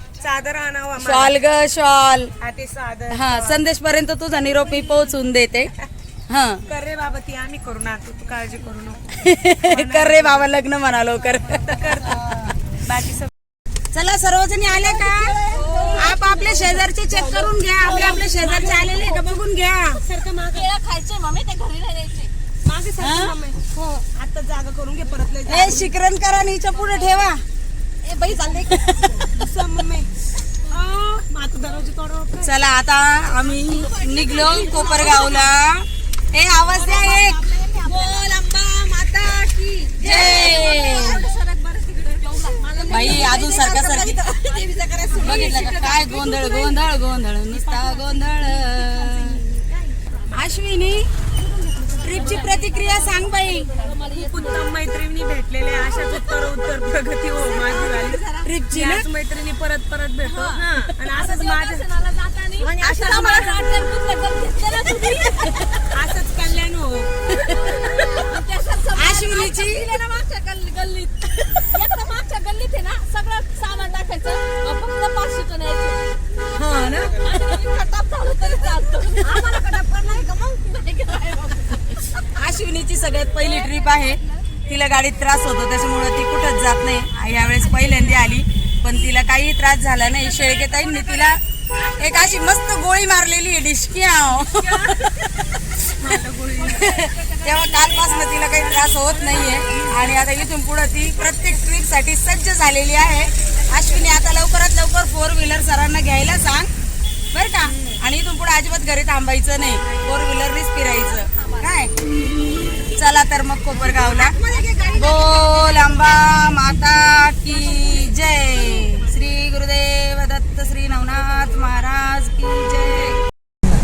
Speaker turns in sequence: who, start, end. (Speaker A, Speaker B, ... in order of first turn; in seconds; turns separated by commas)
Speaker A: 0.2-1.4, Speaker B: 1.0-2.3, Speaker A: 2.4-3.6, Speaker B: 3.1-5.7, Speaker B: 6.3-6.6, Speaker A: 6.6-10.5, Speaker B: 9.1-12.5, Speaker A: 11.5-13.3, Speaker B: 13.9-20.0, Speaker C: 15.0-16.5, Speaker A: 15.4-16.6, Speaker A: 17.1-20.7, Speaker C: 20.5-22.3, Speaker A: 22.6-25.9, Speaker B: 23.0-23.4, Speaker B: 25.4-27.4, Speaker C: 28.0-29.1, Speaker A: 28.4-30.1, Speaker B: 28.7-29.2, Speaker A: 30.6-32.5, Speaker B: 32.4-37.5, Speaker C: 33.7-35.0, Speaker A: 35.0-35.5, Speaker C: 36.7-46.5, Speaker A: 37.7-39.0, Speaker B: 40.0-41.3, Speaker A: 40.0-41.3, Speaker A: 42.0-46.6, Speaker B: 42.9-44.2, Speaker B: 45.2-49.4, Speaker C: 48.7-49.0, Speaker A: 49.3-49.6, Speaker B: 50.3-51.1, Speaker C: 51.8-54.6, Speaker B: 52.0-53.7, Speaker A: 52.1-52.6, Speaker A: 53.8-62.0, Speaker C: 57.5-58.5, Speaker B: 58.4-59.0, Speaker C: 60.3-65.8, Speaker A: 62.5-63.9, Speaker A: 65.3-67.3, Speaker B: 65.5-65.8, Speaker B: 67.3-68.2, Speaker C: 67.4-76.0, Speaker B: 68.9-70.0, Speaker A: 69.1-69.5, Speaker B: 71.4-71.8, Speaker B: 76.5-77.4, Speaker C: 77.1-82.1, Speaker B: 82.2-96.1, Speaker A: 94.5-95.1, Speaker A: 95.8-97.2, Speaker B: 96.6-106.7, Speaker A: 99.1-100.2, Speaker B: 107.3-111.9, Speaker B: 112.9-123.2, Speaker A: 114.2-114.9, Speaker C: 114.5-115.6